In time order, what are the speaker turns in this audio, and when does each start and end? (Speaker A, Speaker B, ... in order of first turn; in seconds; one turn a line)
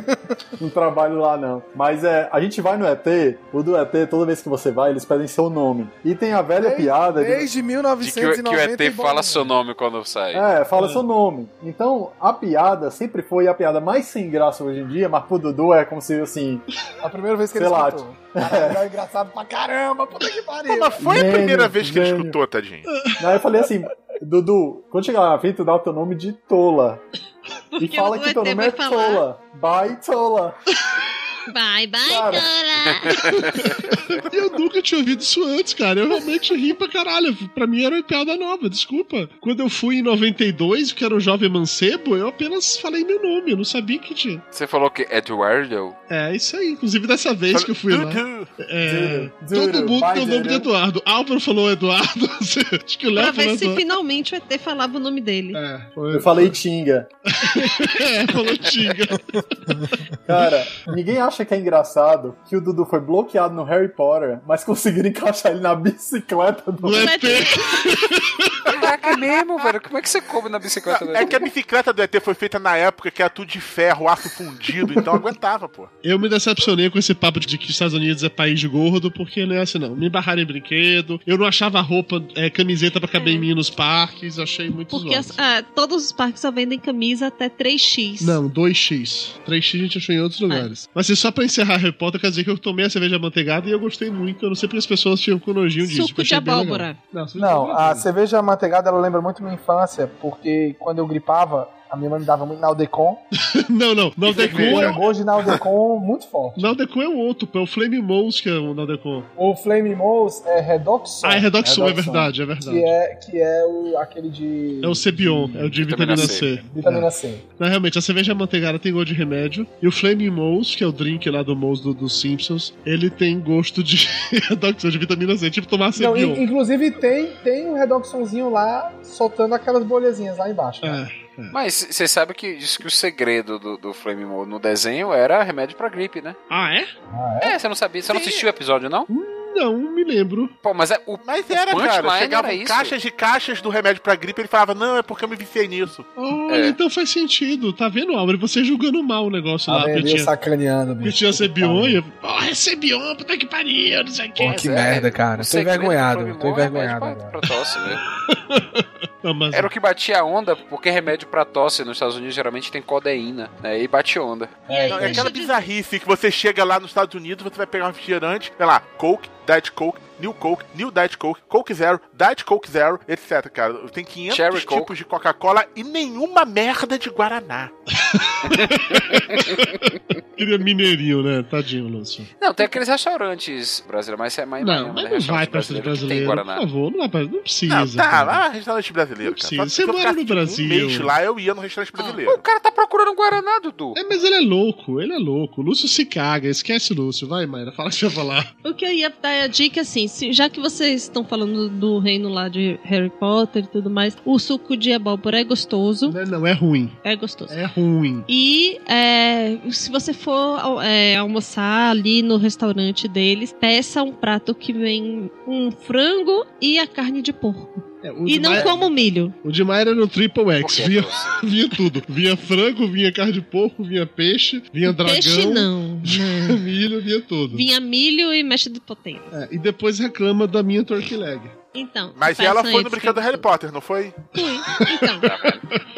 Speaker A: 0.6-7.5
Speaker B: 6.6-9.5
Speaker C: 8.0-10.4
Speaker A: 10.3-16.7
Speaker D: 10.8-11.0
Speaker B: 17.0-21.4
Speaker A: 17.5-18.8
Speaker E: 20.7-22.9
Speaker A: 21.0-22.4
Speaker A: 23.2-27.0
Speaker F: 27.8-29.2
Speaker A: 27.8-30.6
Speaker F: 31.5-33.2
Speaker A: 32.1-32.5
Speaker D: 33.2-44.4
Speaker C: 44.5-46.0
Speaker D: 46.1-53.8
Speaker E: 47.5-48.5
Speaker A: 48.8-50.7
Speaker F: 53.2-55.6
Speaker D: 55.6-56.6
Speaker A: 56.1-57.1
Speaker D: 57.4-59.9
Speaker A: 60.3-67.2
Speaker D: 66.8-68.7
Speaker F: 66.9-67.7
Speaker C: 68.7-71.5
Speaker E: 70.9-75.9
Speaker D: 76.0-85.4
Speaker F: 83.2-83.5
Speaker F: 84.9-88.4
Speaker D: 88.2-98.1
Speaker F: 95.8-97.0
Speaker B: 97.4-103.2
Speaker D: 103.5-105.0
Speaker E: 104.2-105.0
Speaker B: 104.4-106.8
Speaker D: 106.6-109.3
Speaker B: 109.4-117.4
Speaker D: 111.2-112.9
Speaker D: 114.8-126.4
Speaker C: 115.8-116.6
Speaker B: 126.0-131.0
Speaker D: 130.8-131.6
Speaker C: 131.5-136.4
Speaker D: 136.5-136.9
Speaker B: 137.1-137.6
Speaker C: 137.4-139.1
Speaker E: 138.1-138.5
Speaker D: 139.1-140.5
Speaker C: 140.6-142.9
Speaker E: 141.2-146.1
Speaker D: 146.2-150.3
Speaker C: 146.5-146.8
Speaker B: 149.7-152.0
Speaker D: 151.0-154.6
Speaker B: 154.4-157.5
Speaker C: 154.4-158.0
Speaker D: 158.3-159.7
Speaker C: 159.5-164.6
Speaker B: 164.7-165.3
Speaker F: 164.7-165.6
Speaker E: 164.9-177.7
Speaker C: 174.3-174.9
Speaker D: 177.9-182.3
Speaker C: 178.6-179.4
Speaker C: 182.4-186.6
Speaker D: 184.6-188.4
Speaker E: 187.7-192.4
Speaker D: 189.2-191.1
Speaker C: 192.2-194.0
Speaker D: 193.9-198.5
Speaker F: 198.6-206.2
Speaker D: 206.1-207.0
Speaker F: 207.0-207.6
Speaker D: 207.5-208.3
Speaker F: 208.3-219.3
Speaker D: 218.0-218.8
Speaker B: 218.6-218.8
Speaker D: 219.4-227.7
Speaker C: 220.6-221.4
Speaker F: 224.8-226.6
Speaker F: 227.5-229.3
Speaker D: 229.3-231.6
Speaker F: 231.7-233.4
Speaker E: 232.2-234.2
Speaker F: 234.3-235.3
Speaker D: 235.0-235.8
Speaker C: 235.2-235.6